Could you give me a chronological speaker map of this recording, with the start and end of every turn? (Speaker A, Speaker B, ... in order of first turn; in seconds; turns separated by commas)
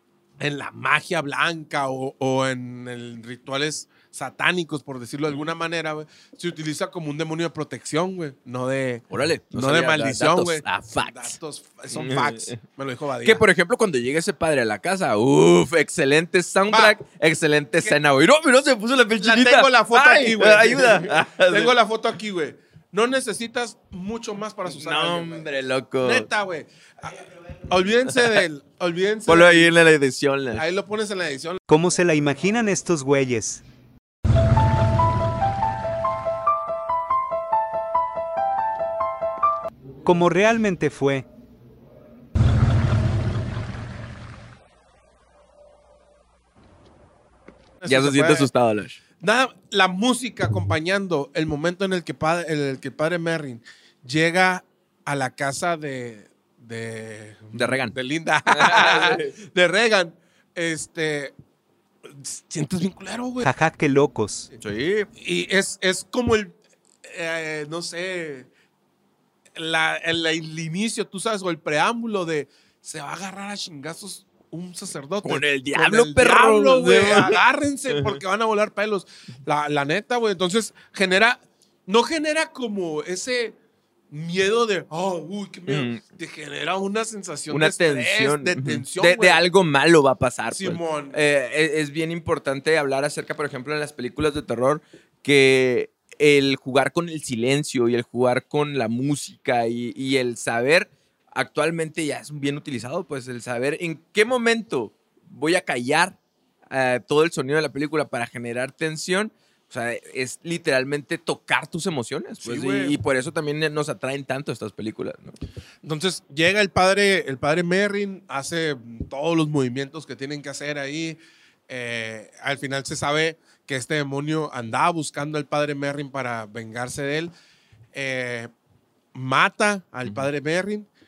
Speaker A: 0.4-13.4, Speaker B: 9.1-11.4, Speaker B: 11.9-12.6, Speaker B: 13.2-21.7, Speaker A: 16.7-17.0, Speaker A: 19.2-25.5, Speaker B: 24.7-26.3, Speaker A: 26.0-29.7, Speaker B: 28.1-28.4, Speaker B: 29.3-30.6, Speaker A: 30.5-31.6, Speaker C: 31.7-33.6, Speaker C: 40.0-41.3, Speaker A: 47.8-48.5, Speaker B: 47.9-49.0, Speaker A: 49.2-61.3, Speaker B: 57.5-58.0, Speaker B: 58.5-59.3, Speaker A: 62.0-63.5, Speaker C: 63.4-64.5, Speaker B: 64.6-65.1, Speaker A: 65.2-68.5, Speaker A: 69.6-83.5, Speaker B: 75.2-78.2, Speaker A: 84.1-89.4, Speaker B: 85.7-86.0, Speaker B: 87.5-106.2, Speaker A: 90.5-91.2, Speaker B: 106.7-115.4, Speaker A: 112.4-113.0, Speaker A: 115.8-127.3, Speaker A: 127.9-128.5, Speaker A: 129.1-130.9